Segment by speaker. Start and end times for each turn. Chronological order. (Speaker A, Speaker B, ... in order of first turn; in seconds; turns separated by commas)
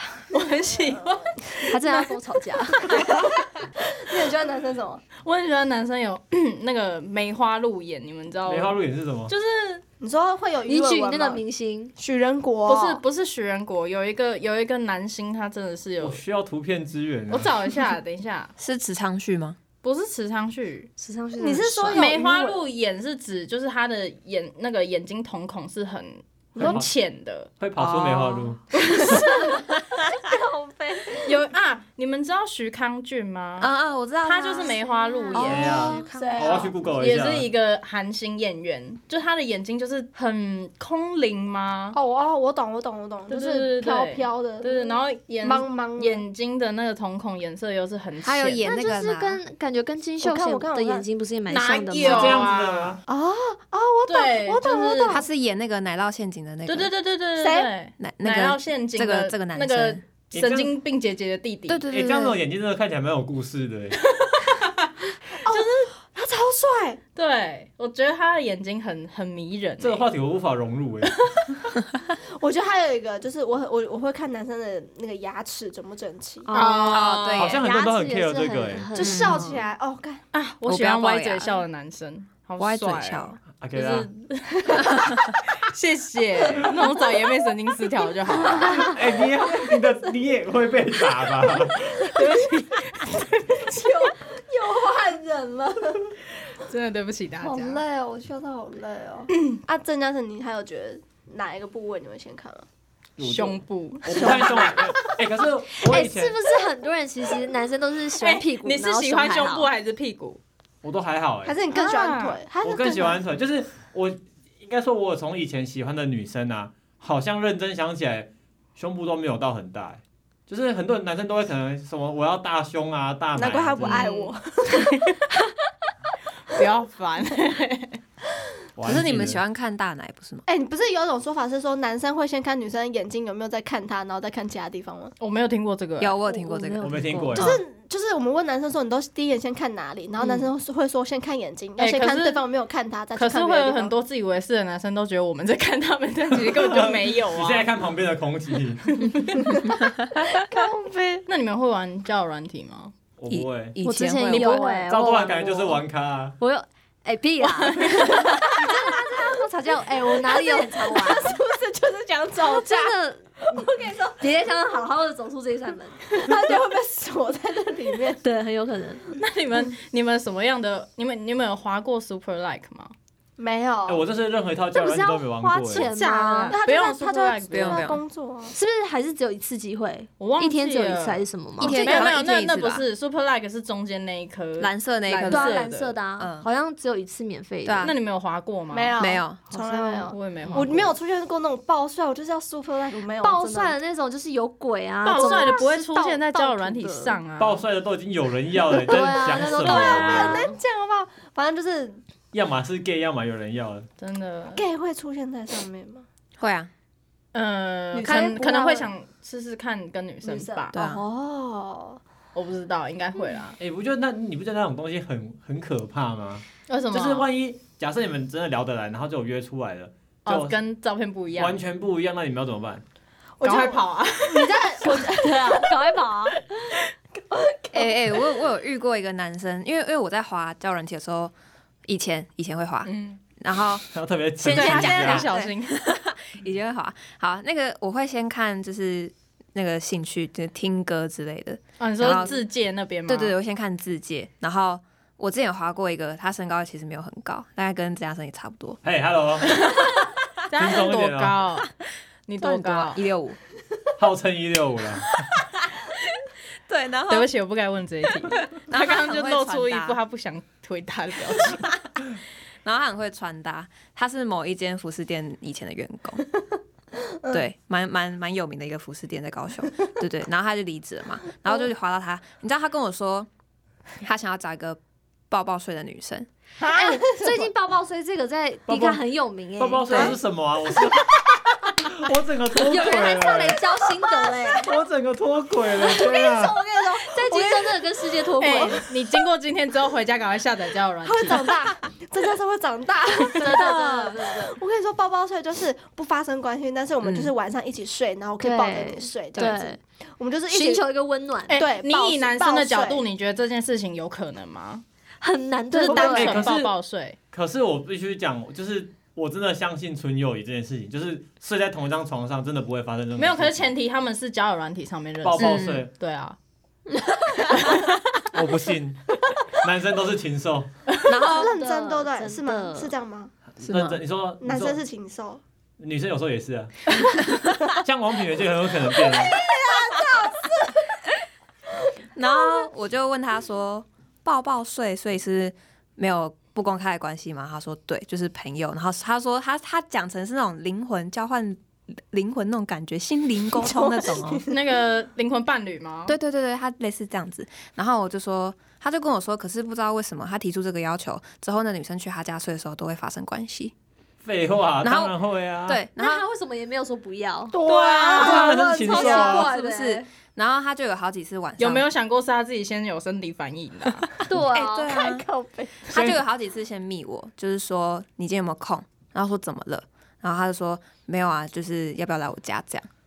Speaker A: 0.3-2.0, Speaker B: 0.3-1.3, Speaker C: 1.7-3.2, Speaker B: 2.8-5.0, Speaker A: 5.2-8.8, Speaker D: 8.5-9.3, Speaker A: 9.3-9.8, Speaker B: 10.0-11.4, Speaker C: 10.7-11.9, Speaker B: 12.0-13.0, Speaker A: 12.7-16.2, Speaker D: 16.0-17.5, Speaker A: 17.3-18.5, Speaker E: 18.6-19.6, Speaker A: 19.8-20.9, Speaker C: 21.0-22.2, Speaker B: 21.4-22.6, Speaker A: 21.9-27.5, Speaker B: 26.6-26.8, Speaker D: 26.6-26.9, Speaker D: 27.6-28.6, Speaker E: 27.8-28.6, Speaker A: 28.8-29.3, Speaker B: 30.3-31.1, Speaker A: 31.2-33.7, Speaker E: 33.6-36.5, Speaker A: 34.2-36.0, Speaker C: 35.4-36.6, Speaker D: 35.4-37.5, Speaker B: 35.5-36.8, Speaker A: 37.0-42.0, Speaker B: 41.9-46.2, Speaker A: 43.3-48.6, Speaker E: 48.2-49.4, Speaker C: 48.6-52.5, Speaker B: 50.2-51.1, Speaker A: 51.5-53.0, Speaker D: 52.0-53.0, Speaker B: 53.1-55.2, Speaker A: 54.1-55.2, Speaker E: 55.1-56.9, Speaker A: 56.7-61.9, Speaker B: 57.4-57.7, Speaker E: 58.0-60.0, Speaker D: 60.3-60.8, Speaker E: 61.7-62.4, Speaker D: 61.9-64.0, Speaker A: 64.1-64.9, Speaker B: 65.4-67.0, Speaker A: 65.5-65.9, Speaker A: 67.2-70.0, Speaker D: 69.8-71.3, Speaker B: 72.4-76.5, Speaker C: 76.5-79.6, Speaker E: 76.5-77.6, Speaker A: 76.5-77.5, Speaker D: 77.4-78.9, Speaker B: 78.9-80.2, Speaker E: 79.0-79.6, Speaker A: 80.3-88.9, Speaker E: 80.7-81.6, Speaker E: 82.6-83.4, Speaker D: 83.6-84.1, Speaker D: 88.5-92.0, Speaker B: 88.6-90.1, Speaker B: 91.5-92.2, Speaker A: 92.0-94.1, Speaker B: 93.7-96.2, Speaker A: 96.5-97.8, Speaker B: 97.4-102.7, Speaker D: 103.2-106.4, Speaker A: 103.2-104.6, Speaker B: 104.1-105.1, Speaker C: 105.8-109.7, Speaker A: 108.2-110.4, Speaker D: 110.8-111.6, Speaker B: 111.5-113.2, Speaker A: 111.7-112.4, Speaker D: 112.6-124.1, Speaker B: 123.4-125.0, Speaker A: 123.9-125.2, Speaker A: 126.5-128.0, Speaker D: 128.8-129.4, Speaker E: 128.8-130.4, Speaker B: 130.5-135.1, Speaker A: 135.2-136.2, Speaker E: 136.0-137.6, Speaker C: 136.3-137.4, Speaker D: 136.8-137.6, Speaker B: 137.4-143.9, Speaker A: 141.8-142.4, Speaker A: 143.2-147.7, Speaker D: 146.3-149.1, Speaker A: 149.0-149.7, Speaker B: 150.3-151.3, Speaker A: 151.3-152.9, Speaker D: 153.2-153.8, Speaker E: 153.3-154.7, Speaker C: 153.8-155.8, Speaker A: 154.2-154.9, Speaker D: 154.9-156.4, Speaker C: 156.4-161.4, Speaker A: 157.4-158.2, Speaker B: 158.0-164.3, Speaker C: 162.4-166.2, Speaker B: 166.1-168.2, Speaker C: 168.2-169.0, Speaker A: 169.2-172.9, Speaker B: 173.4-174.1, Speaker D: 173.9-175.9, Speaker C: 174.7-176.6, Speaker B: 176.0-178.6, Speaker A: 176.0-177.9, Speaker E: 177.5-178.0, Speaker C: 178.5-182.1, Speaker A: 180.2-186.0, Speaker E: 181.6-182.8, Speaker E: 184.6-185.6, Speaker C: 185.3-187.9, Speaker E: 186.2-186.5, Speaker E: 187.7-187.9, Speaker A: 187.8-188.9, Speaker B: 188.7-193.8, Speaker E: 189.0-190.1, Speaker A: 190.1-190.9, Speaker C: 193.2-197.2, Speaker A: 195.0-197.6, Speaker B: 195.1-195.7, Speaker D: 197.4-200.4, Speaker C: 198.8-200.6, Speaker B: 198.9-202.0, Speaker D: 202.3-203.9, Speaker A: 204.0-204.6, Speaker B: 204.6-206.1, Speaker E: 206.4-206.7, Speaker A: 207.3-210.8, Speaker B: 207.9-208.9, Speaker B: 210.2-212.0, Speaker E: 210.7-211.0, Speaker A: 212.3-213.6, Speaker D: 213.6-220.6, Speaker A: 216.7-217.3, Speaker A: 220.2-221.6, Speaker D: 221.3-222.8, Speaker B: 223.4-225.8, Speaker A: 223.4-224.5, Speaker C: 224.8-226.4, Speaker B: 227.1-228.2, Speaker E: 227.7-231.3, Speaker E: 231.9-233.9, Speaker A: 232.9-233.2, Speaker D: 233.9-235.3, Speaker E: 234.4-242.4, Speaker A: 234.5-235.8, Speaker A: 241.8-243.3, Speaker E: 243.1-248.8, Speaker D: 248.8-249.5, Speaker A: 250.5-251.7, Speaker D: 250.6-251.4, Speaker A: 252.3-253.0, Speaker E: 252.4-253.4, Speaker D: 254.0-255.3, Speaker E: 256.7-257.3, Speaker A: 257.1-261.7, Speaker E: 258.3-260.0, Speaker E: 262.6-266.2, Speaker E: 267.3-273.3, Speaker E: 274.0-274.8, Speaker E: 275.3-276.3, Speaker B: 276.6-277.5, Speaker C: 276.6-280.2, Speaker D: 278.7-279.0, Speaker D: 279.6-283.6, Speaker E: 279.9-280.2, Speaker C: 282.6-284.7, Speaker B: 284.1-284.5, Speaker D: 284.6-286.6, Speaker B: 285.8-287.9, Speaker C: 285.9-288.9, Speaker A: 288.4-291.5, Speaker B: 288.4-288.7, Speaker B: 291.1-300.9, Speaker C: 293.3-294.6, Speaker E: 297.0-297.3, Speaker C: 298.4-299.8, Speaker C: 300.5-301.6, Speaker A: 301.5-304.8, Speaker B: 301.5-303.1, Speaker C: 305.2-306.5, Speaker A: 305.7-307.2, Speaker D: 305.9-306.7, Speaker D: 307.3-313.7, Speaker A: 313.2-316.4, Speaker D: 315.2-315.9, Speaker E: 315.4-315.9, Speaker D: 318.3-320.7, Speaker E: 321.1-321.6, Speaker B: 321.2-323.3, Speaker C: 321.4-322.9, Speaker D: 323.6-324.8, Speaker E: 323.6-324.0, Speaker B: 324.4-325.4, Speaker D: 325.8-326.9, Speaker D: 327.8-329.4, Speaker B: 329.0-330.8, Speaker E: 332.1-344.4, Speaker B: 332.3-332.7, Speaker B: 343.6-344.5, Speaker A: 344.5-346.2, Speaker E: 346.1-353.7, Speaker D: 354.2-355.8, Speaker E: 354.8-355.1, Speaker E: 355.7-356.2, Speaker C: 356.0-360.0, Speaker B: 357.5-359.4, Speaker D: 358.1-359.5, Speaker E: 358.9-361.9, Speaker A: 361.6-364.1, Speaker C: 364.3-365.1, Speaker E: 364.5-365.2, Speaker B: 364.5-365.9, Speaker E: 365.9-372.9, Speaker D: 365.9-366.2